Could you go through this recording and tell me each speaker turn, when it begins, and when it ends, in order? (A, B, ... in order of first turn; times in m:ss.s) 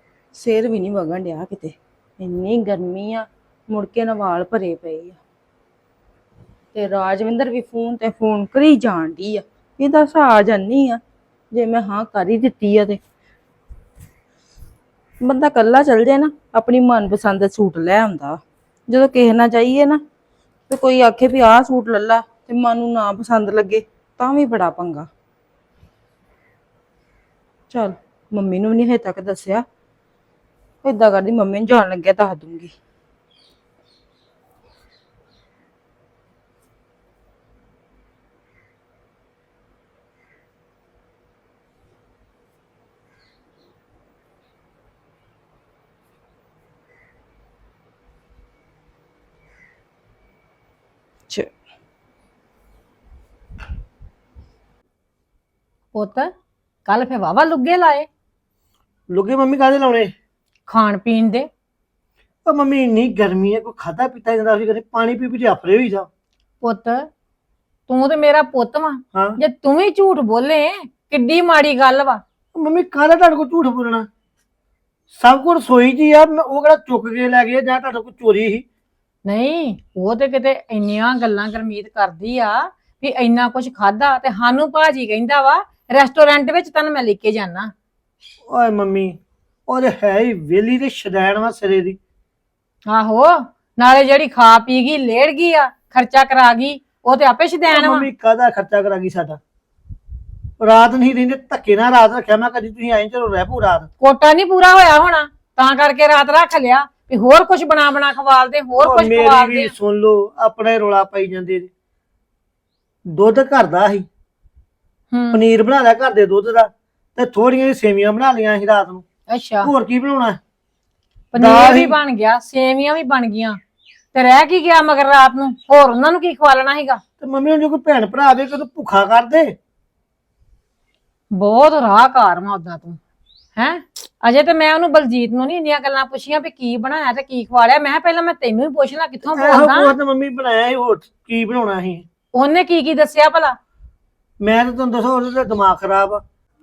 0:00.3-0:05.2 A
0:06.8-0:11.0 A
0:11.5-0:13.0 A
0:15.3-0:20.0 A
0:20.7-0:25.0 A
0:27.7-0:29.7 A
0:30.9-0:32.7 A
0:55.9-0:56.3 B
0:56.8-0:58.1 B
0:59.1-1:00.1 C
1:00.7-1:01.5 B
1:02.4-1:06.1 C
1:06.6-1:07.1 B
1:07.9-1:12.2 B
1:12.5-1:14.1 C
1:15.1-1:18.6 C
1:19.3-1:27.7 B
1:28.5-1:32.0 C
1:32.9-1:38.1 B
1:37.7-1:39.4 C
1:40.6-1:43.9 C
1:44.0-1:49.7 B
1:48.8-1:51.7 C
1:53.1-1:54.1 C
1:55.1-1:55.4 B
1:55.3-1:59.0 C
1:59.3-1:59.7 B
1:59.6-2:00.4 C
2:01.3-2:03.6 B
2:01.4-2:02.0 C
2:04.1-2:07.0 B
2:07.2-2:09.6 C
2:11.3-2:13.0 B
2:13.6-2:19.9 B
2:19.3-2:22.0 C
2:22.3-2:23.6 B
2:24.4-2:26.2 C